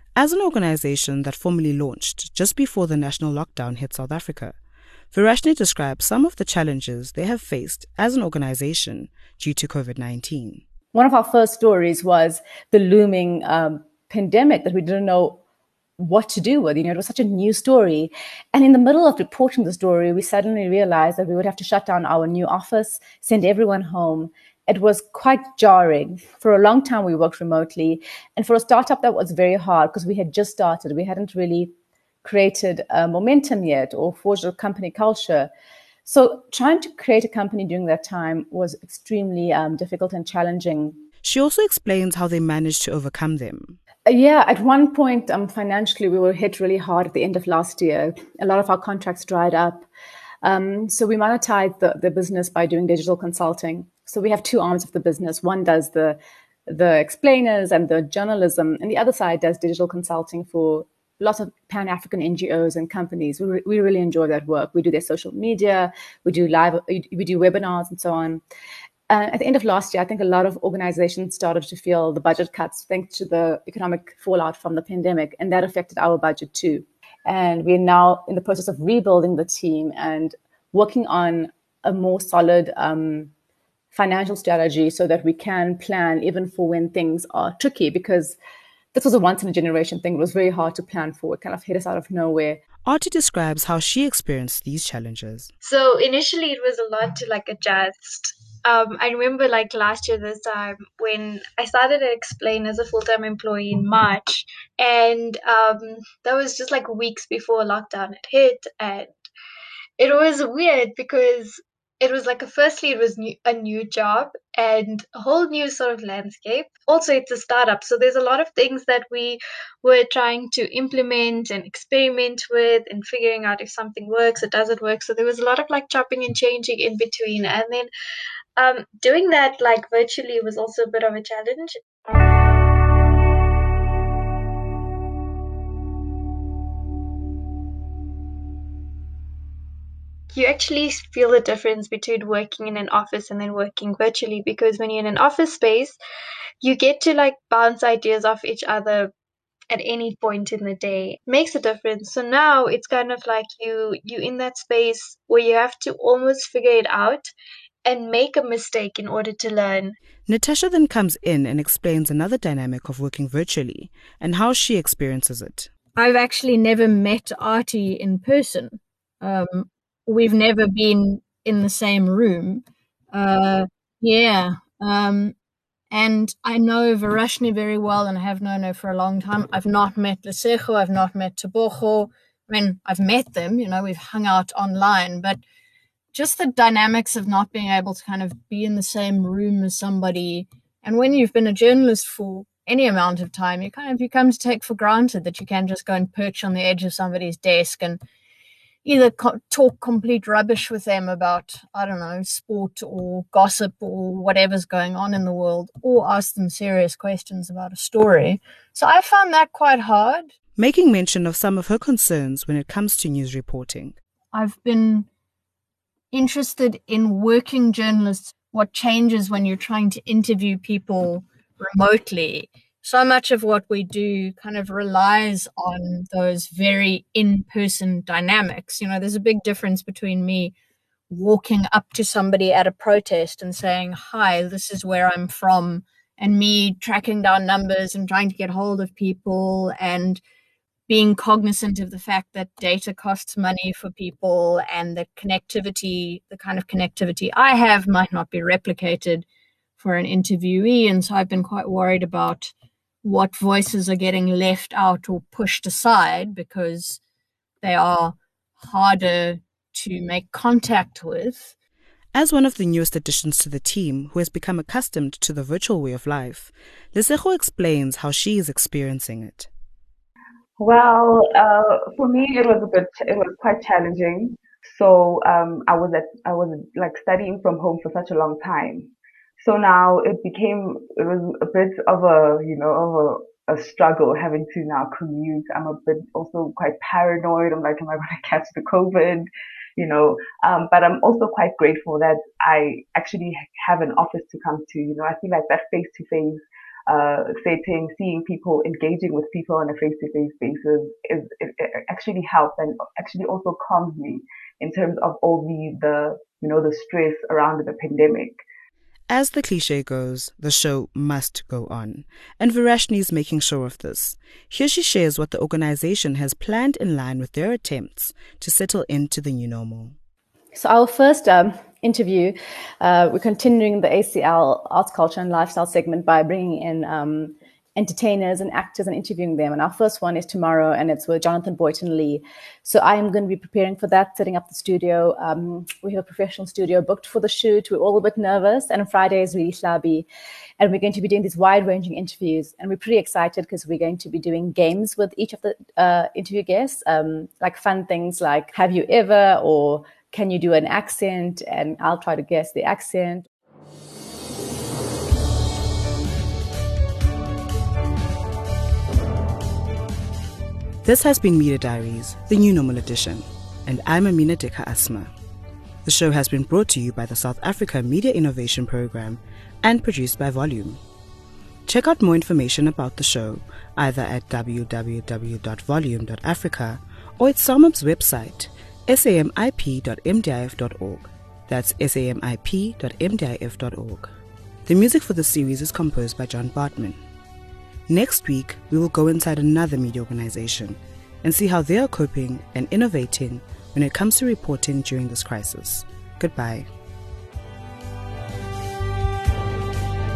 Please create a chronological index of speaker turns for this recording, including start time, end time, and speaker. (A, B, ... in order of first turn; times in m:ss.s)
0:00.2-0:04.6 A
0:05.1-0:10.6 A
0:10.9-0:15.4 B
0:16.0-0:31.7 B
0:32.2-0:35.5 B
0:36.0-0:41.0 B
0:41.2-0:43.8 A
0:44.1-0:49.9 B
0:50.4-1:08.4 B
1:09.1-1:23.3 B
1:23.9-1:28.4 B
1:28.9-1:32.6 B
1:32.8-1:35.5 A
1:35.6-1:49.1 C
1:50.0-2:07.9 C
2:08.6-2:11.8 C
2:20.3-2:26.0 C
2:26.6-2:29.1 C
2:29.7-2:37.3 C
2:37.8-2:40.0 C
2:40.3-2:45.7 A
2:46.0-2:55.3 D
2:55.9-3:05.4 D
3:06.1-3:18.0 D
3:18.8-3:30.3 D
3:30.6-3:34.0 A
3:34.3-3:35.1 D
3:36.1-3:50.5 D
3:51.1-4:00.2 D
4:00.9-4:09.2 D
4:09.8-4:12.5 D
4:13.0-4:17.0 D
4:17.6-4:21.5 D
4:22.1-4:29.5 A
4:30.6-5:08.4 E
5:09.1-5:20.0 A
5:20.5-5:40.1 B
5:40.6-5:53.3 B
6:00.8-6:05.1 A
6:05.8-6:10.8 A
6:11.7-6:24.1 A
6:24.7-6:27.0 A
6:27.9-6:36.7 A